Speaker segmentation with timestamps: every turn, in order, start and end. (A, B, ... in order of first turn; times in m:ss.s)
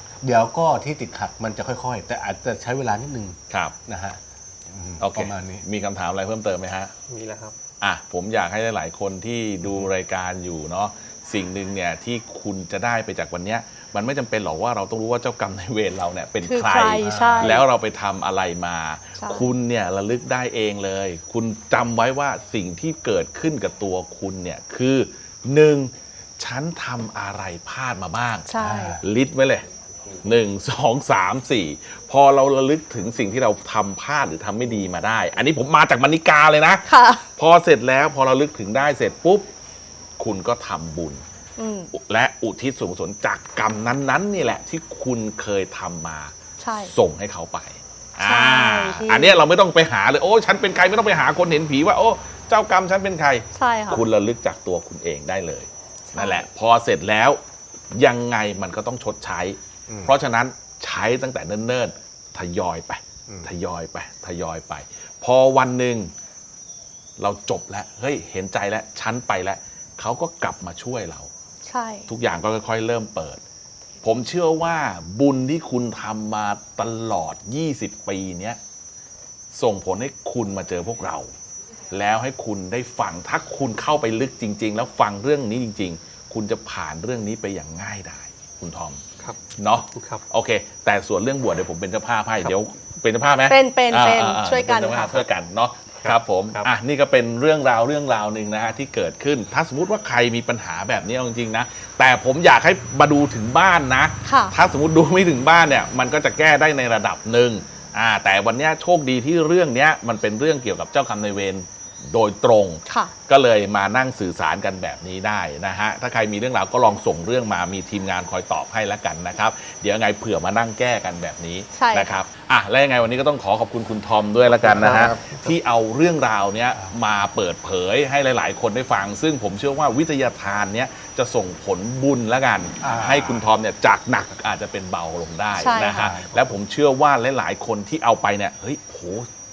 0:00.2-0:05.6 A
0:03.5-0:03.8 B
0:05.0-0:06.9 B
0:07.1-0:07.6 C
0:07.8-0:29.7 B
0:16.4-0:17.7 D
0:17.0-0:17.6 A
0:19.2-0:19.5 D
0:28.5-0:29.0 D
0:28.6-0:29.0 A
0:30.2-0:39.5 B
0:36.9-0:37.2 D
0:40.2-0:41.2 B
0:41.6-0:41.9 D
0:41.9-0:46.3 B
0:46.6-0:46.9 D
0:46.8-1:06.1 B
0:48.2-0:49.4 D
0:53.5-0:54.0 D
0:56.1-0:56.4 D
0:59.9-1:00.1 A
1:07.2-1:11.3 B
1:11.6-1:12.1 D
1:12.1-1:13.4 B
1:14.0-1:18.6 B
1:19.5-1:21.3 B
1:21.9-1:29.0 B
1:29.6-2:19.3 B
1:29.9-1:30.2 C
1:33.5-1:35.2 D
1:36.0-1:36.7 C
1:44.2-1:44.5 D
1:52.9-1:53.1 D
2:01.7-2:02.2 D
2:04.6-2:05.4 A
2:04.7-2:05.2 C
2:12.8-2:13.5 A
2:15.5-2:16.1 D
2:15.8-2:16.5 A